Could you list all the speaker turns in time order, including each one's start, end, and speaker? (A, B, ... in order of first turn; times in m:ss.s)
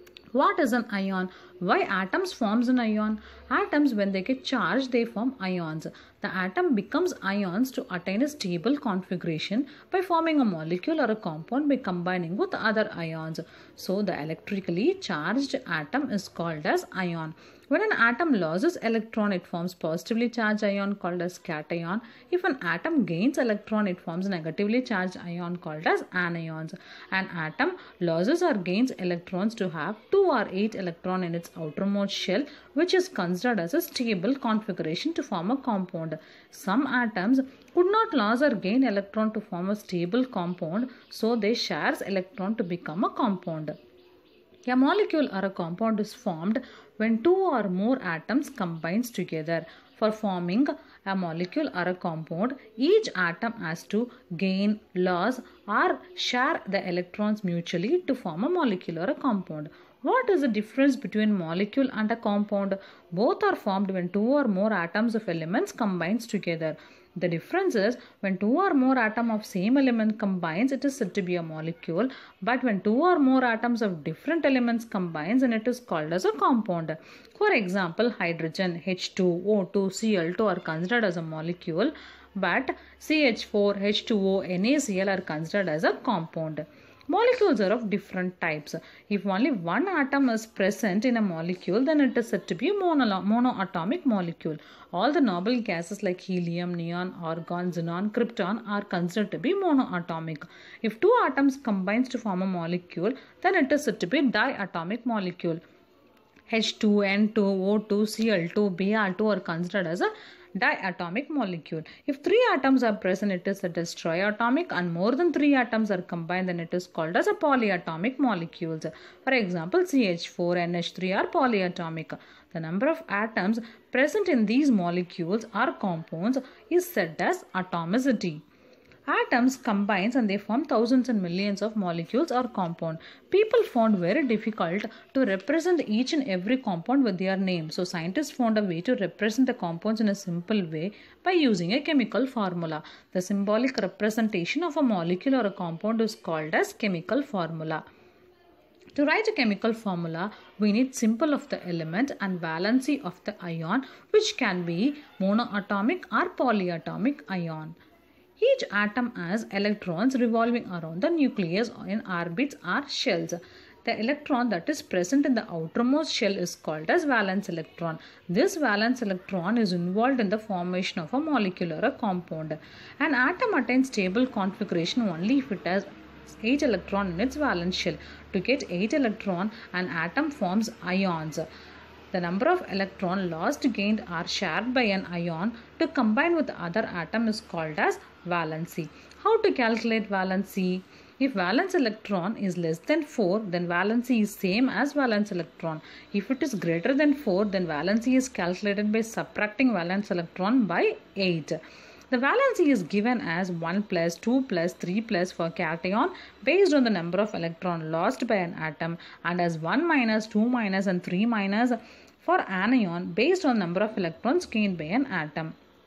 0:00.3-0:43.8 A
0:44.7-1:45.6 A
1:46.5-2:08.4 A
2:09.1-2:27.8 A
2:28.9-2:37.7 A
2:38.4-3:01.4 A
3:02.1-3:21.6 A
3:22.1-3:35.5 A